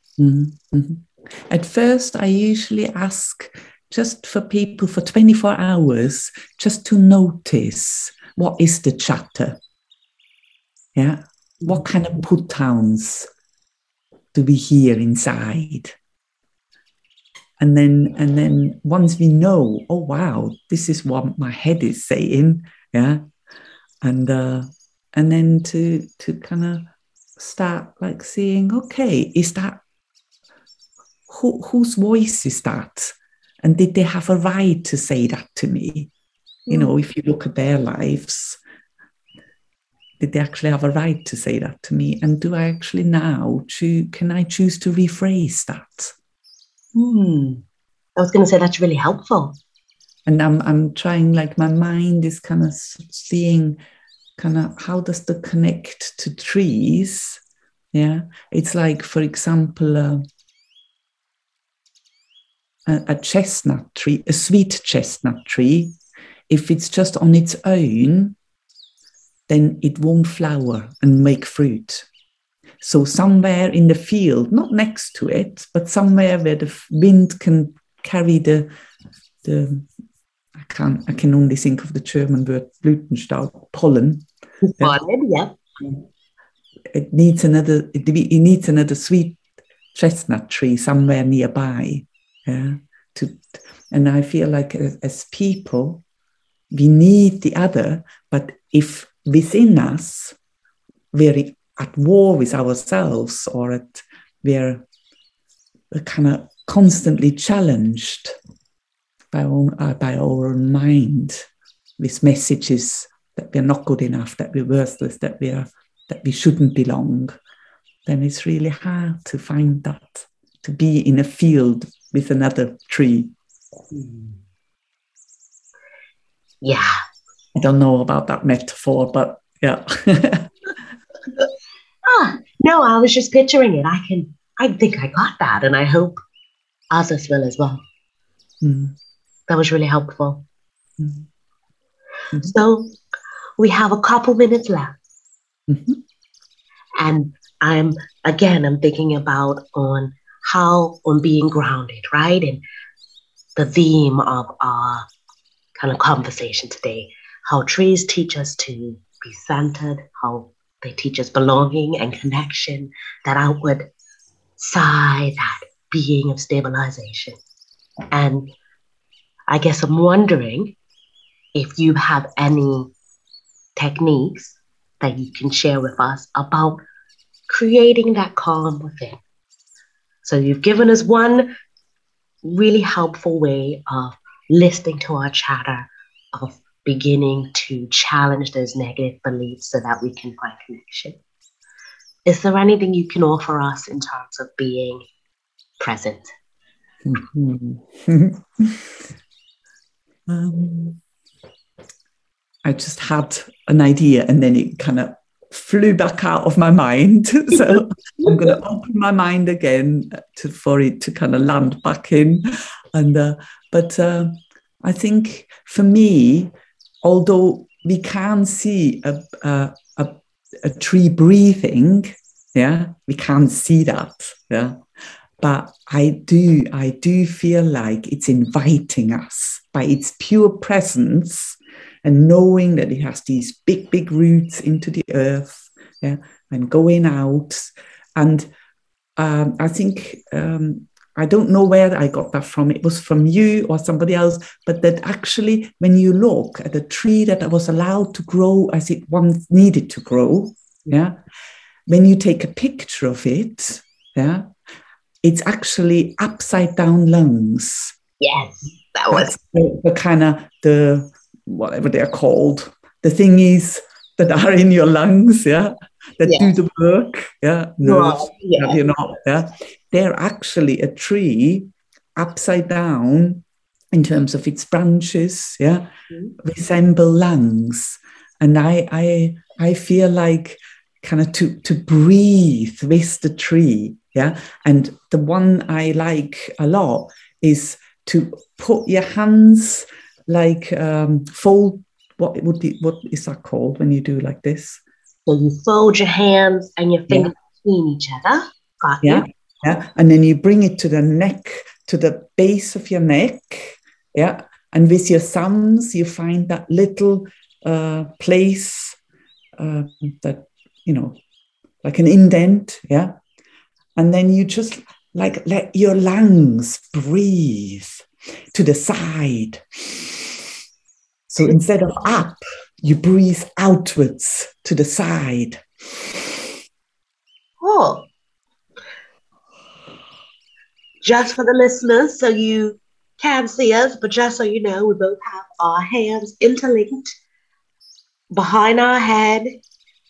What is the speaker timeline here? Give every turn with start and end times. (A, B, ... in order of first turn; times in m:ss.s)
0:00.2-0:09.6 A
0:10.9-0:13.3 A
0:14.3-0:15.9 A
0:17.6-0:23.2 A
0:24.0-0:29.8 A
0:31.3-0:36.1 A
0:36.7-0:36.9 B
0:36.7-0:38.6 A
0:40.2-0:46.1 A
0:46.9-0:47.6 B
0:48.2-0:49.6 B
0:50.2-0:53.8 A
0:54.4-0:57.4 A
0:57.9-1:00.2 A
1:02.8-1:06.0 A
1:06.5-1:08.4 A
1:09.5-1:12.1 A
1:12.8-1:18.7 A
1:19.4-1:19.9 A
1:20.6-1:25.0 A
1:24.6-1:25.6 B
1:26.9-1:29.4 A
1:29.9-1:36.0 A
1:36.7-1:40.4 A
1:41.1-1:44.8 A
1:45.9-1:48.4 A
1:49.3-1:51.5 A
1:52.0-1:57.3 A
1:58.0-2:03.3 A
2:03.9-2:04.4 B
2:06.6-2:07.0 B
2:07.5-2:10.5 A
2:12.0-2:16.2 B
2:16.9-2:17.8 B
2:18.6-2:19.0 A
2:19.5-2:20.4 B
2:21.0-2:21.3 A
2:22.3-2:23.0 B
2:23.6-2:25.0 B
2:25.7-2:26.0 A
2:27.0-2:32.6 B
2:33.6-2:35.1 B
2:35.8-2:43.9 B
2:44.6-2:47.4 B
2:48.1-2:48.5 B
2:49.5-2:50.7 B
2:51.5-2:52.9 B
2:53.8-2:56.8 B
2:57.5-2:59.2 B
3:00.2-3:01.5 B
3:02.4-3:11.2 B
3:12.2-3:15.0 B
3:15.8-3:16.3 B
3:17.0-3:19.1 A
3:20.3-3:21.0 A
3:22.6-3:44.8 A
3:27.7-3:28.3 B
3:45.4-3:58.5 A
3:59.2-4:11.2 A
4:11.9-4:14.4 A
4:15.2-4:17.9 A
4:18.2-4:19.3 B
4:19.1-4:54.8 A
4:26.2-4:26.5 B
4:27.8-4:28.8 B
4:55.2-4:59.3 B
4:59.0-5:09.0 A
5:09.6-5:11.2 A
5:11.8-5:13.1 A
5:14.0-5:20.4 A
5:21.3-5:26.5 A
5:27.6-5:28.1 B
5:31.0-5:37.2 B
5:38.3-5:39.5 B